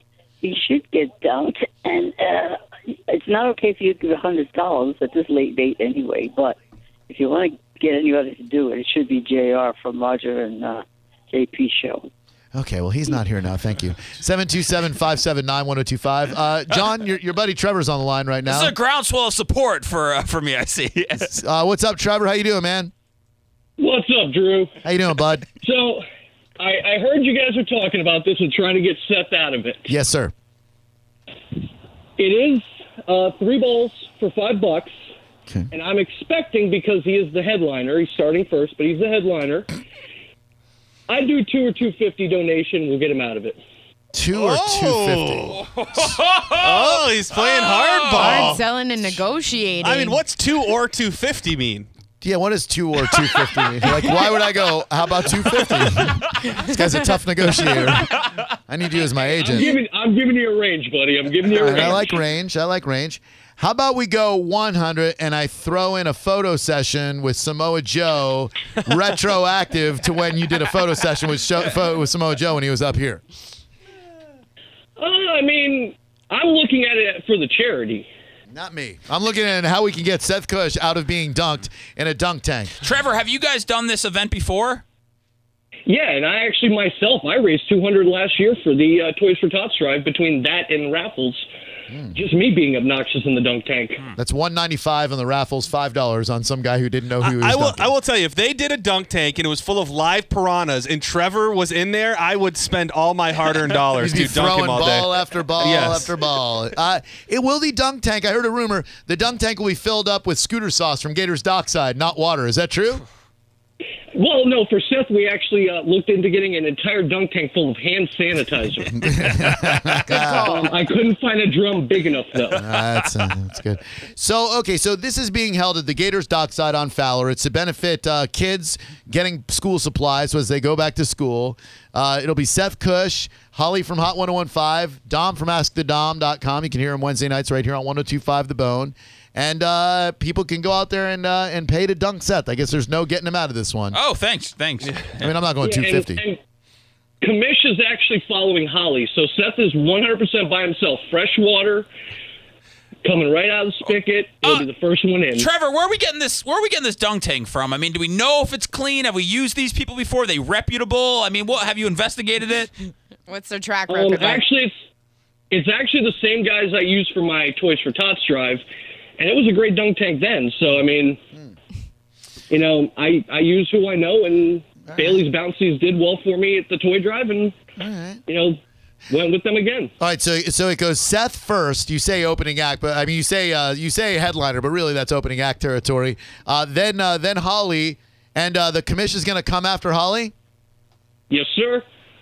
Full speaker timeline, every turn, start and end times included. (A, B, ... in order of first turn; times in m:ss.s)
0:00.4-0:06.6 A
0:07.1-0:12.1 A
0:12.5-0:18.7 B
0:18.5-0:21.3 C
0:21.2-0:22.9 B
0:23.8-0:24.7 D
0:24.8-0:25.5 B
0:25.6-0:26.1 D
0:26.6-0:29.9 D
0:29.9-0:30.3 B
0:32.2-0:34.9 D
0:35.7-0:39.7 D
0:41.1-0:43.6 D
0:44.1-0:45.6 B
0:44.3-0:45.6 E
0:45.6-0:48.5 C
0:46.6-0:48.6 E
0:48.2-0:50.2 F
0:49.8-0:51.9 E
0:52.2-0:59.7 B
0:53.6-0:54.3 E
0:55.4-0:56.2 E
0:59.4-1:02.1 D
1:01.5-1:13.2 B
1:15.0-1:18.1 D
1:18.5-1:22.7 B
1:22.8-1:24.8 C
1:25.9-1:31.4 D
1:31.9-1:32.2 B
1:32.1-1:34.1 D
1:34.2-1:37.9 B
1:37.2-1:46.1 E
1:44.0-1:53.0 B
1:54.2-1:59.2 D
1:58.9-2:00.6 B
2:00.4-2:02.6 D
2:02.5-2:24.0 B
2:23.9-2:25.3 C
2:25.2-2:26.2 B
2:25.6-2:26.4 D
2:27.2-2:31.9 D
2:33.0-2:35.5 D
2:35.3-2:42.7 C
2:43.3-2:44.4 F
2:43.9-2:44.7 D
2:45.5-2:48.6 D
2:49.2-2:51.2 D
2:52.5-2:57.6 D
2:54.9-2:55.2 B
2:57.8-2:58.2 B
2:58.3-2:59.9 D
3:00.0-3:10.3 B
3:11.3-3:11.9 D